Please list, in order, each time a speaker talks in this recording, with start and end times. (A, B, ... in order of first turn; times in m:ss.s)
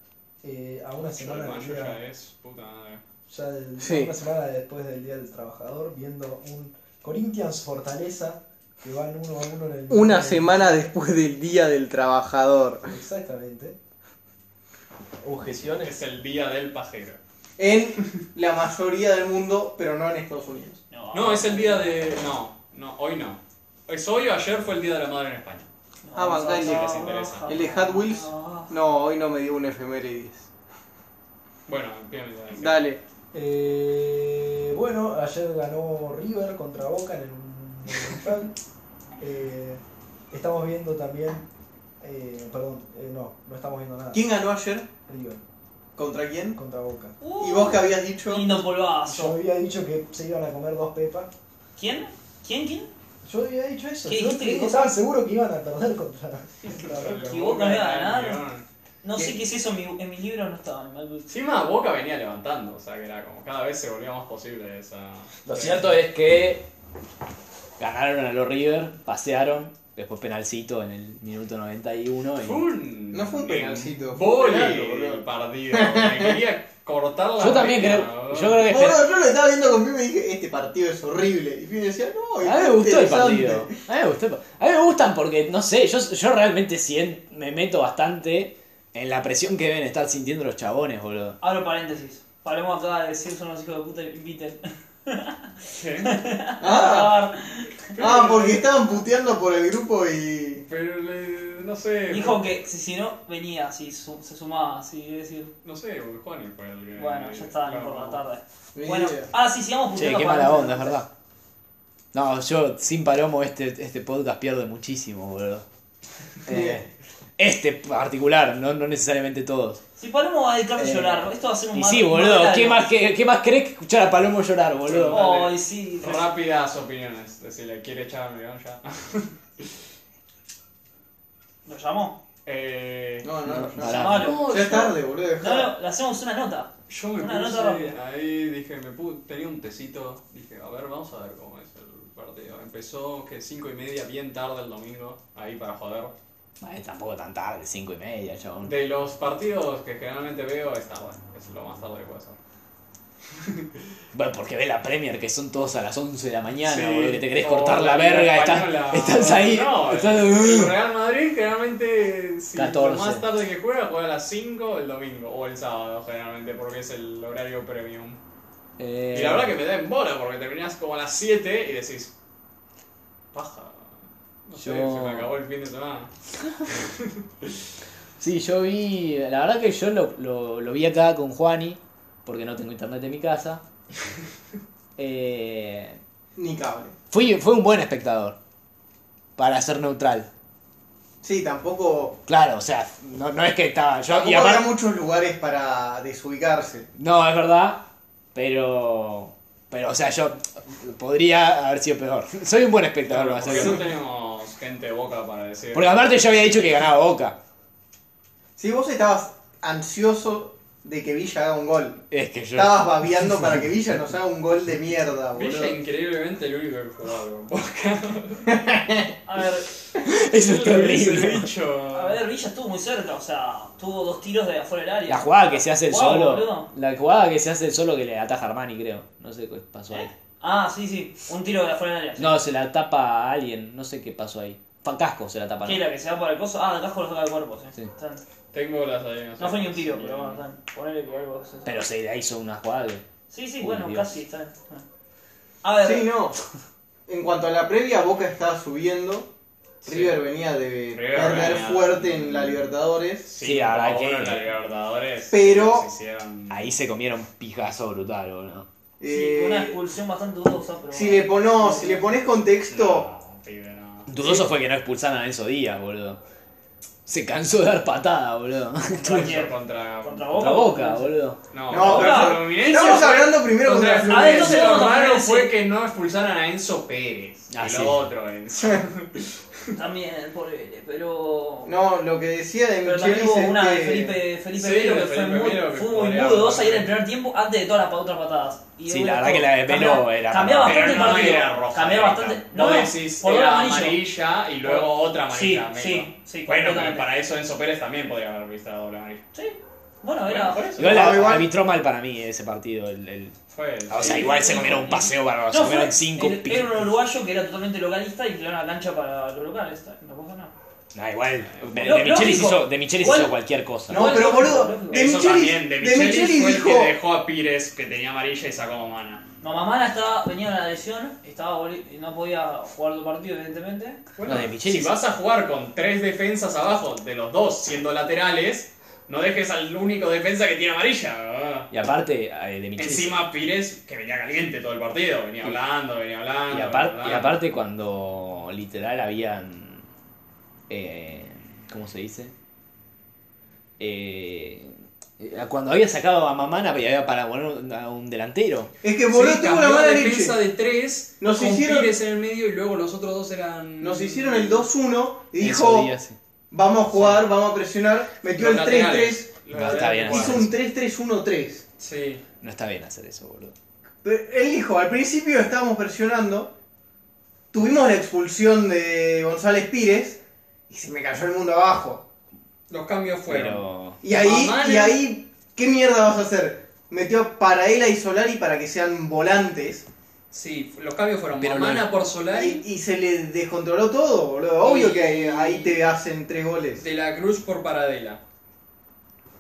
0:00.4-0:02.0 A
0:01.2-0:03.0 B
0:03.3-0:10.9 A
0:03.8-0:04.2 C
0:09.9-0:12.9 C
0:12.9-0:13.8 A
0:15.2-0:16.0 A
0:15.4-0:17.2 B
0:17.6-0:20.8 C
0:20.9-0:22.2 D
0:21.1-0:25.7 B
0:26.0-0:28.7 D
0:26.2-0:30.5 C
0:26.5-0:27.5 B
0:31.7-0:32.8 B
0:32.5-0:33.0 C
0:33.3-0:38.6 A
0:39.2-0:41.5 A
0:42.0-0:44.2 A
0:44.1-0:44.9 C
0:45.0-0:45.4 A
0:46.0-0:46.6 C
0:46.6-0:47.2 A
0:47.2-0:49.4 D
0:47.4-0:48.6 C
0:49.0-0:51.3 A
0:51.8-0:52.9 D
0:53.2-0:57.4 A
0:54.0-0:54.9 D
0:56.7-0:58.6 B
0:57.2-0:58.4 D
0:59.0-1:01.3 D
1:01.3-1:06.0 B
1:05.5-1:06.7 E
1:07.8-1:12.6 E
1:12.4-1:18.6 B
1:13.1-1:16.4 C
1:17.4-1:19.1 E
1:18.7-1:23.8 C
1:22.4-1:31.4 E
1:31.4-1:35.5 D
1:35.7-1:36.2 B
1:36.0-1:37.9 D
1:36.6-1:37.2 C
1:37.9-1:38.7 B
1:38.0-1:40.6 C
1:40.7-1:42.5 B
1:42.1-1:45.5 D
1:45.6-1:48.2 B
1:47.0-1:51.0 D
1:48.8-1:49.3 C
1:50.0-1:51.1 E
1:52.1-1:55.7 E
1:56.5-1:59.8 E
1:56.5-1:56.8 C
2:00.0-2:02.9 D
2:00.8-2:05.3 E
2:04.9-2:09.8 B
2:05.1-2:06.2 D
2:11.7-2:12.2 D
2:12.4-2:13.3 B
2:13.2-2:15.7 C
2:13.5-2:14.4 E
2:13.8-2:14.5 D
2:14.0-2:15.0 B
2:15.4-2:18.0 D
2:16.9-2:26.1 B
2:26.6-2:28.8 E
2:28.6-2:32.4 B
2:33.4-2:33.7 B
2:34.1-2:40.8 E
2:36.7-2:48.2 B
2:42.5-2:43.3 E
2:48.8-2:49.6 E
2:49.1-2:52.1 B
2:53.3-2:53.9 B
2:54.5-2:56.1 B
2:54.6-2:55.3 E
2:56.7-2:57.5 B
2:58.2-3:03.6 E
3:05.0-3:06.0 E
3:06.4-3:07.0 C
3:07.1-3:08.4 E
3:09.4-3:10.3 E
3:11.2-3:12.2 C
3:12.3-3:14.7 E
3:14.1-3:16.9 C
3:17.0-3:23.9 E
3:23.1-3:26.4 B
3:25.7-3:27.4 E
3:28.6-3:35.8 C
3:32.1-3:33.6 E
3:35.4-3:38.5 B
3:38.5-3:39.0 C
3:39.3-3:39.7 D
3:40.0-3:41.5 E
3:40.3-3:42.2 B
3:41.9-3:46.7 D
3:45.1-3:50.1 E
3:50.4-3:52.4 D
3:52.2-3:55.8 E
3:55.6-3:58.2 D
3:58.5-4:00.4 B
3:59.4-4:01.8 D
4:01.6-4:03.0 E
4:03.3-4:04.8 D
4:03.6-4:04.2 E
4:05.6-4:06.1 D
4:05.8-4:06.4 C
4:07.1-4:09.3 C
4:09.8-4:10.2 B
4:09.8-4:13.3 C
4:10.9-4:12.6 B
4:13.2-4:16.7 B
4:13.4-4:14.5 E
4:15.3-4:15.9 C
4:16.5-4:18.7 E
4:19.0-4:19.8 C
4:19.1-4:22.2 D
4:20.9-4:23.1 C
4:22.7-4:24.1 B
4:24.1-4:26.2 E
4:24.2-4:24.4 C
4:27.1-4:29.4 E
4:28.9-4:31.1 D
4:29.1-4:30.4 B
4:30.3-4:31.4 E
4:31.5-4:39.3 B
4:31.7-4:34.9 C
4:31.8-4:33.0 D
4:34.1-4:35.5 D
4:37.5-4:38.0 E
4:39.8-4:41.7 D
4:41.6-4:44.2 C
4:42.8-4:54.0 D
4:44.6-4:46.9 B
4:48.9-4:51.4 E
4:50.6-4:59.2 B
4:54.6-4:57.1 D
4:59.3-5:00.6 D
5:00.3-5:01.2 B
5:00.8-5:03.4 E
5:00.8-5:01.5 C
5:03.5-5:05.1 B
5:03.9-5:06.9 E
5:04.0-5:10.5 D
5:10.9-5:14.2 E
5:11.5-5:12.0 B
5:11.8-5:13.3 D
5:13.9-5:15.0 D
5:13.9-5:16.9 C
5:14.9-5:19.2 B
5:19.4-5:24.0 D
5:24.2-5:31.7 B
5:24.2-5:25.0 E
5:31.7-5:33.3 E
5:32.8-5:37.4 B
5:36.5-5:39.8 E
5:40.7-5:42.3 E
5:43.8-5:48.7 E
5:48.8-5:50.4 C
5:49.1-5:54.7 B
5:51.2-5:51.9 C
5:53.8-5:55.9 C
5:55.4-5:56.2 E
5:56.5-6:01.6 C
5:56.8-5:57.3 B
5:58.3-6:00.5 B
5:59.5-6:00.5 E
6:01.8-6:02.2 B
6:02.4-6:03.5 E
6:04.0-6:06.5 C
6:07.5-6:10.2 C
6:10.7-6:12.1 C
6:12.7-6:15.0 B
6:13.3-6:14.0 E
6:14.0-6:19.9 C
6:20.3-6:22.6 B
6:21.3-6:21.9 E
6:22.3-6:26.8 C
6:24.6-6:25.8 B
6:26.8-6:28.2 B